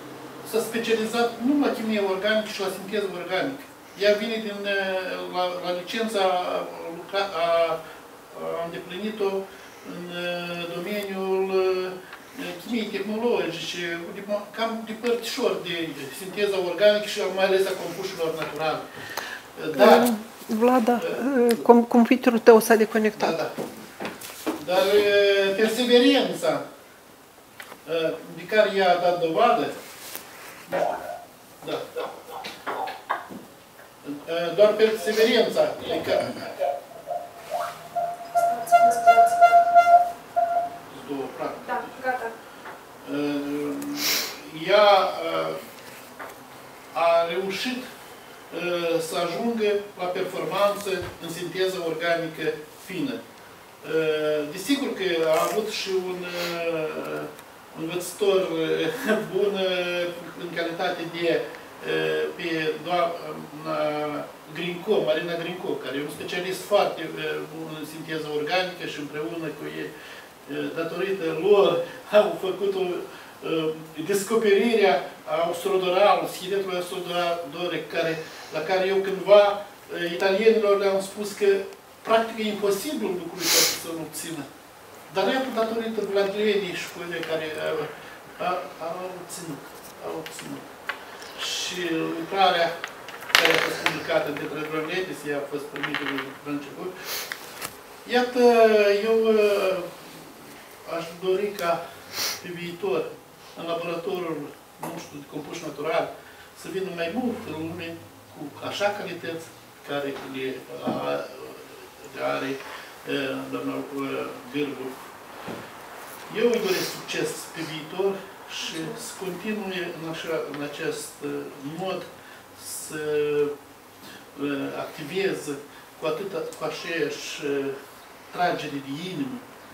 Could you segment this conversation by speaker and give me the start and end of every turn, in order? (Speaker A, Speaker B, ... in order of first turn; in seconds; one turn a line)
Speaker A: 0.4-18.9
Speaker A: 19.6-20.1
Speaker B: 19.7-23.4
Speaker A: 23.2-23.5
Speaker A: 24.6-26.6
Speaker A: 27.8-29.7
Speaker A: 30.7-30.9
Speaker A: 31.6-32.0
Speaker A: 34.0-36.5
Speaker C: 38.3-39.5
Speaker A: 40.9-41.9
Speaker C: 41.6-42.3
Speaker A: 43.0-45.6
Speaker A: 46.9-47.9
Speaker A: 48.5-53.2
Speaker A: 53.8-69.9
Speaker A: 70.5-84.5
Speaker A: 85.1-90.7
Speaker A: 91.3-92.7
Speaker A: 93.3-96.9
Speaker A: 98.0-100.1
Speaker A: 100.8-101.8
Speaker A: 102.4-115.0
Speaker A: 116.3-123.5
Speaker C: 118.7-119.0
Speaker A: 124.3-127.8
Speaker A: 128.3-129.4